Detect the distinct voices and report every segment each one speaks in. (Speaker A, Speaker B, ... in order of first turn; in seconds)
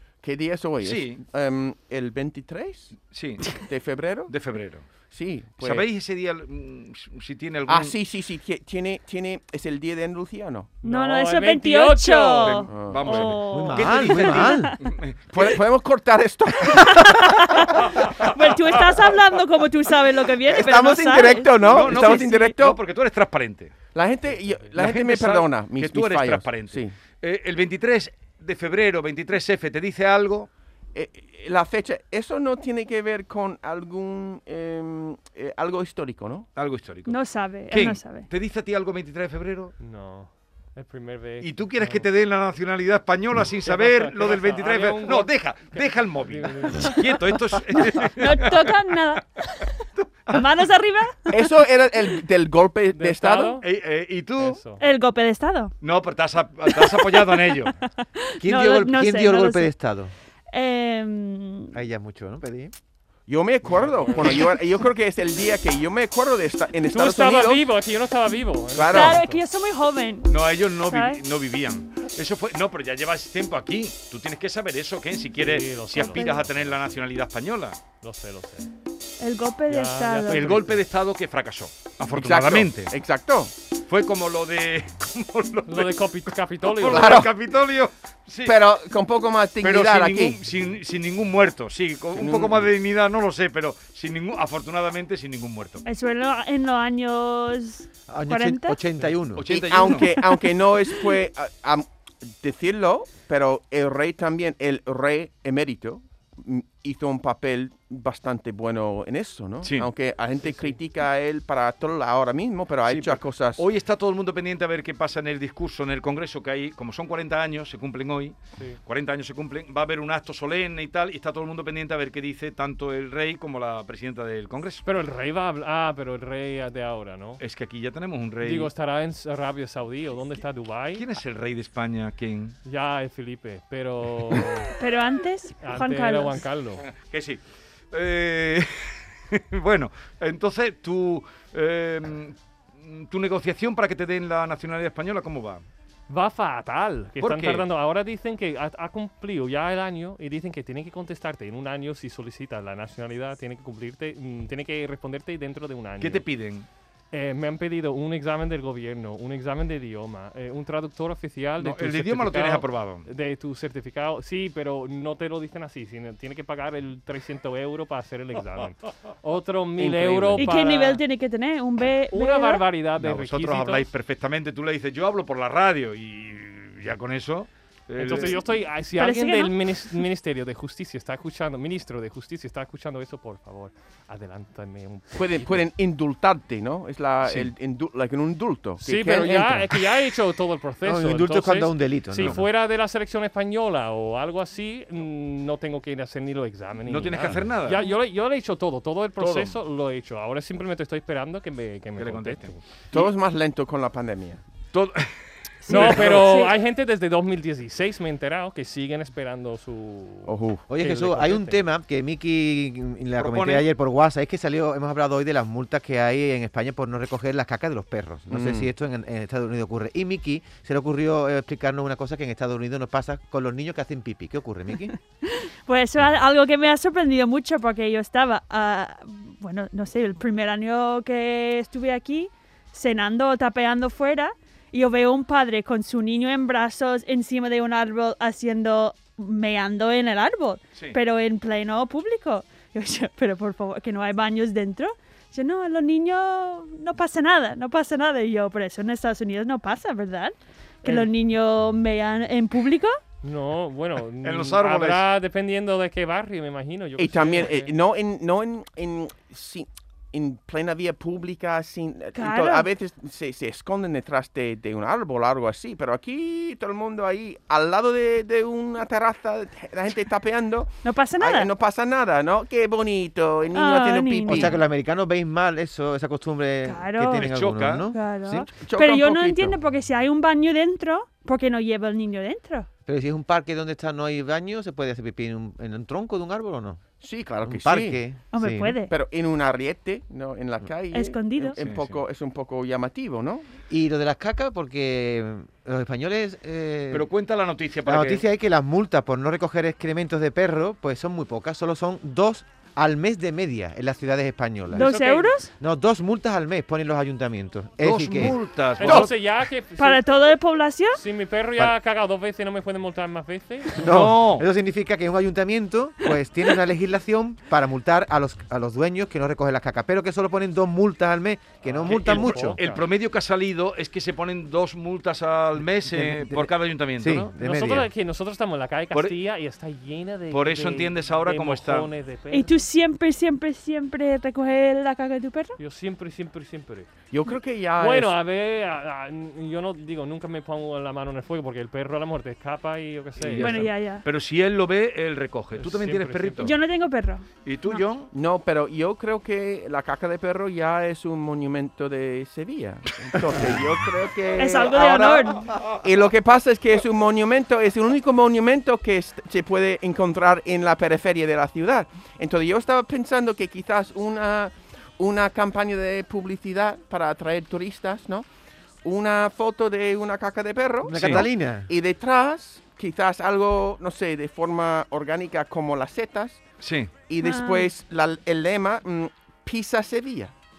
Speaker A: 0.2-3.0, 3.5-4.3, 5.1-5.8, 7.7-10.8, 12.7-13.3, 15.3-17.6, 20.4-22.8, 23.9-26.9, 30.9-36.5, 51.3-53.6, 63.3-67.6, 68.8-69.2, 82.1-83.5, 86.8-87.3, 88.5-90.4, 92.2-92.7, 99.5-113.6, 185.2-189.7, 202.9-204.4, 210.3-210.6, 218.3-218.7, 257.0-274.6, 278.6-279.6, 287.0-288.0, 288.9-293.4, 308.8-309.1, 337.1-338.2, 348.1-368.3, 368.8-376.4, 377.1-380.3
Speaker B: 0.8-1.2, 3.1-3.6, 4.3-4.8, 5.6-7.9, 12.4-15.6, 17.9-18.9, 21.6-23.7, 24.8-30.5, 36.6-37.2, 37.7-39.7, 41.4-48.9, 50.0-50.5, 53.6-54.6, 55.8-57.7, 70.3-77.8, 80.3-82.9, 83.9-86.0, 86.6-88.6, 89.6-95.8, 99.4-100.2, 109.6-109.9, 112.9-124.8, 127.4-128.7, 130.9-132.6, 136.8-145.6, 147.2-147.7, 156.0-156.7, 161.6-163.1, 169.8-170.5, 173.0-178.4, 187.2-187.5, 196.9-197.8, 199.2-199.5, 202.0-203.1, 204.7-206.3, 213.2-213.7, 254.2-255.1, 277.2-277.9, 291.6-292.0, 296.9-298.2, 307.8-309.1, 313.8-314.5, 321.9-327.3, 330.3-331.9, 343.2-346.6, 347.4-348.1, 370.9-371.2, 376.6-376.9
Speaker C: 10.8-12.6, 39.8-42.1, 43.7-47.0, 52.9-53.6, 54.4-54.8, 63.7-64.4, 66.9-69.4, 75.4-76.8, 78.0-78.7, 79.7-80.8, 85.7-87.2, 110.4-110.8, 124.8-127.4, 128.4-131.1, 132.7-134.7, 135.6-136.8, 146.1-156.2, 157.1-171.0, 172.1-173.9, 178.0-185.7, 188.8-202.6, 205.7-211.6, 253.2-257.7, 304.7-305.3, 308.8-310.1, 310.9-313.8, 321.6-322.8, 327.2-332.6, 335.6-336.9, 337.8-343.7, 345.6-346.6
Speaker D: 10.8-14.8, 16.7-22.6, 37.1-38.3, 48.2-49.7, 50.3-51.5, 54.8-55.7, 56.7-59.7, 60.5-61.8, 68.9-70.3, 70.8-71.2, 76.0-76.4, 79.2-80.6, 95.8-98.8, 134.8-136.4, 170.4-172.6, 179.0-179.5, 205.7-206.6, 225.3-253.0, 262.1-262.7, 270.8-271.5, 273.5-274.6, 276.6-277.3, 277.9-282.7, 288.3-288.9, 290.9-291.6, 304.8-305.5, 309.8-311.0, 332.3-335.6, 343.4-344.0, 346.4-347.8, 354.4-355.5, 377.2-377.7
Speaker E: 13.5-14.7, 58.4-60.1, 61.7-62.7, 98.1-99.4, 190.8-192.4, 210.7-224.9, 274.3-278.5, 282.9-286.8, 287.4-288.8, 293.7-297.1, 297.9-304.9, 305.6-308.4, 313.8-322.6, 325.8-327.9, 370.8-371.7